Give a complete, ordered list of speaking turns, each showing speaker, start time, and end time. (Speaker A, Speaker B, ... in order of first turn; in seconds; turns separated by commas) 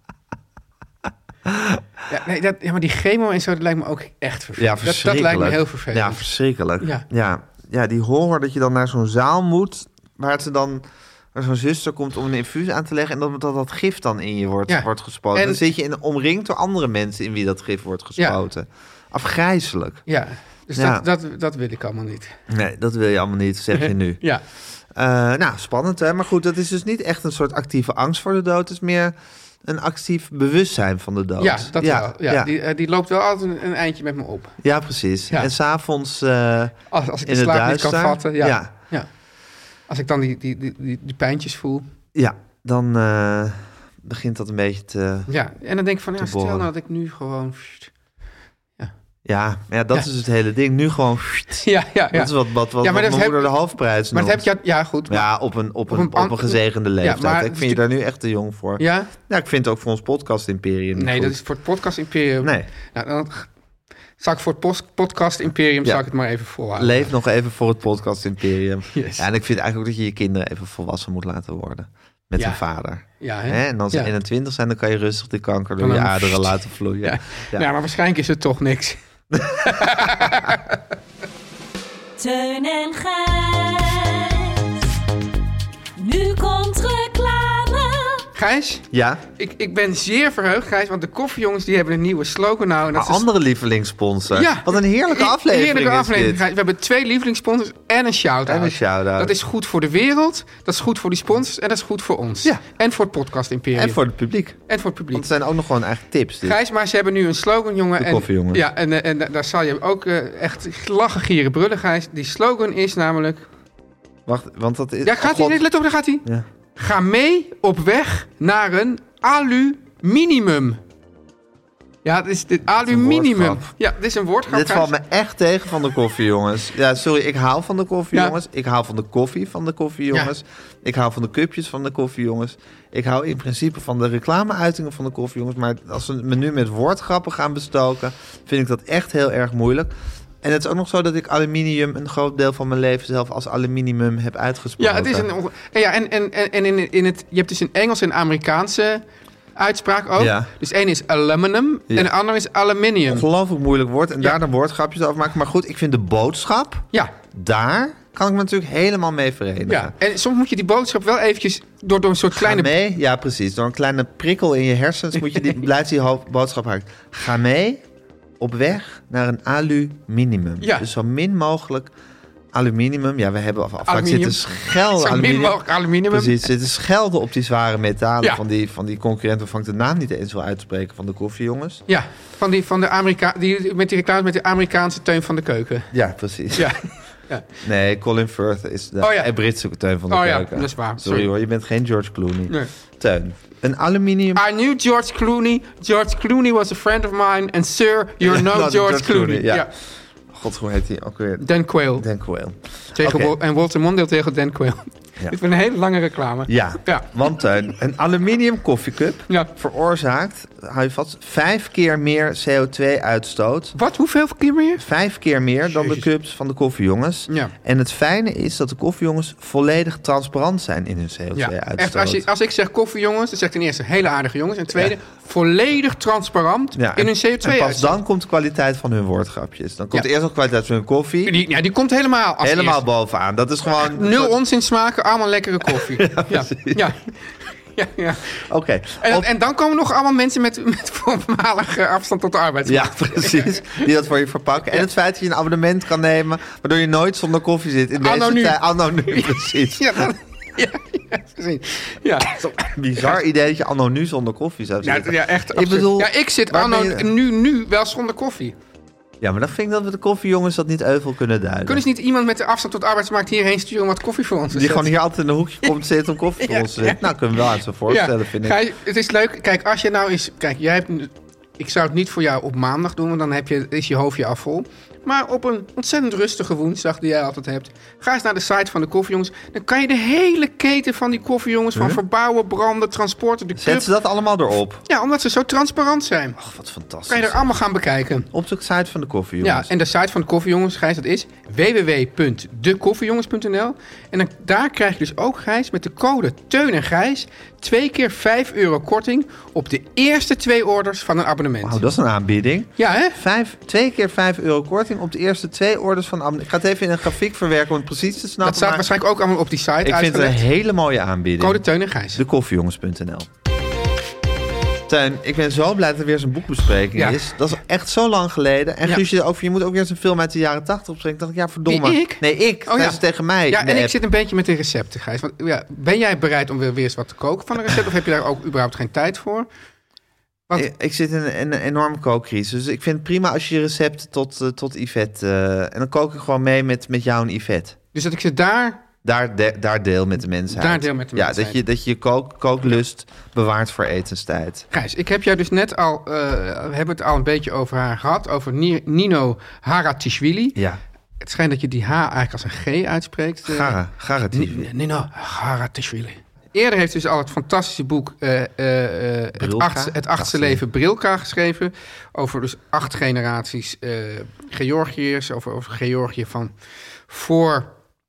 Speaker A: 1.5-1.8, Speaker B: 2.1-6.2, Speaker A: 4.6-10.8, Speaker B: 6.8-7.0, Speaker A: 11.3-20.0, Speaker B: 14.7-15.6, Speaker B: 20.1-22.4, Speaker A: 20.8-21.0, Speaker A: 22.5-24.2, Speaker B: 23.7-24.4, Speaker A: 24.9-32.5, Speaker B: 31.4-34.6, Speaker A: 34.6-38.7, Speaker B: 36.9-39.1, Speaker B: 39.9-41.9, Speaker A: 42.1-45.3, Speaker B: 45.3-47.9, Speaker A: 46.2-46.7, Speaker A: 49.2-54.5, Speaker B: 51.6-53.5, Speaker B: 54.1-55.3, Speaker A: 55.1-61.4, Speaker B: 55.9-57.8, Speaker B: 58.8-59.1, Speaker B: 61.0-63.5, Speaker A: 62.4-62.7, Speaker B: 64.2-67.1, Speaker A: 66.8-77.7, Speaker B: 68.9-69.3, Speaker B: 73.2-74.1, Speaker B: 75.8-79.0, Speaker A: 79.3-80.2, Speaker B: 79.6-80.8, Speaker C: 82.2-84.8, Speaker C: 86.0-88.2, Speaker B: 88.3-93.3, Speaker A: 88.9-89.2, Speaker A: 92.9-96.5, Speaker B: 94.3-104.0, Speaker A: 98.5-99.3, Speaker A: 103.8-104.6, Speaker B: 104.7-105.3, Speaker A: 105.1-106.6, Speaker B: 106.4-113.5, Speaker A: 108.0-108.7, Speaker A: 114.3-115.6, Speaker B: 115.0-120.8, Speaker B: 122.0-124.9, Speaker A: 122.8-123.7, Speaker A: 124.5-139.9, Speaker A: 140.4-145.3, Speaker B: 144.8-149.1, Speaker B: 149.6-153.3, Speaker A: 150.2-150.5, Speaker A: 153.1-159.9, Speaker B: 159.7-162.7, Speaker A: 162.3-167.8, Speaker A: 168.4-171.9, Speaker B: 170.6-170.9, Speaker A: 172.5-181.8, Speaker B: 173.8-176.5, Speaker B: 181.9-185.9, Speaker A: 185.9-186.7, Speaker B: 186.5-187.5, Speaker A: 187.6-194.4, Speaker B: 189.0-189.3, Speaker B: 190.1-191.3, Speaker B: 194.3-199.7, Speaker A: 198.2-199.7, Speaker A: 200.3-203.3, Speaker B: 201.4-202.1, Speaker B: 202.9-207.1, Speaker A: 206.5-213.8, Speaker B: 213.8-214.8, Speaker A: 214.8-222.3, Speaker B: 215.7-216.1, Speaker B: 221.3-228.0, Speaker A: 226.8-231.4, Speaker B: 231.2-232.8, Speaker A: 232.4-234.4, Speaker B: 233.8-237.2, Speaker A: 235.7-236.9, Speaker B: 237.8-238.4, Speaker A: 238.4-239.3, Speaker B: 239.0-243.9, Speaker A: 242.7-250.1, Speaker B: 248.0-253.2, Speaker A: 252.6-257.1, Speaker B: 254.8-258.6, Speaker A: 259.2-261.8, Speaker B: 261.6-264.9, Speaker A: 264.5-268.6, Speaker B: 266.4-267.1, Speaker B: 267.9-283.9, Speaker A: 281.8-282.0, Speaker A: 283.6-284.8, Speaker B: 284.9-286.4, Speaker A: 286.4-287.6, Speaker B: 287.1-288.3, Speaker A: 288.3-289.7, Speaker B: 289.4-301.9, Speaker A: 301.6-308.9, Speaker B: 302.8-303.2, Speaker B: 308.4-310.4, Speaker A: 309.8-311.6, Speaker B: 311.4-312.2, Speaker A: 312.1-313.3, Speaker A: 314.9-324.0, Speaker B: 317.0-317.3, Speaker B: 321.7-329.5, Speaker A: 330.6-337.8, Speaker B: 337.9-338.8, Speaker A: 339.0-344.7, Speaker B: 340.5-341.6, Speaker B: 344.7-350.6, Speaker A: 350.6-350.8, Speaker B: 351.2-353.8, Speaker A: 353.5-354.7, Speaker B: 354.3-366.5, Speaker A: 359.4-360.6, Speaker B: 367.1-367.7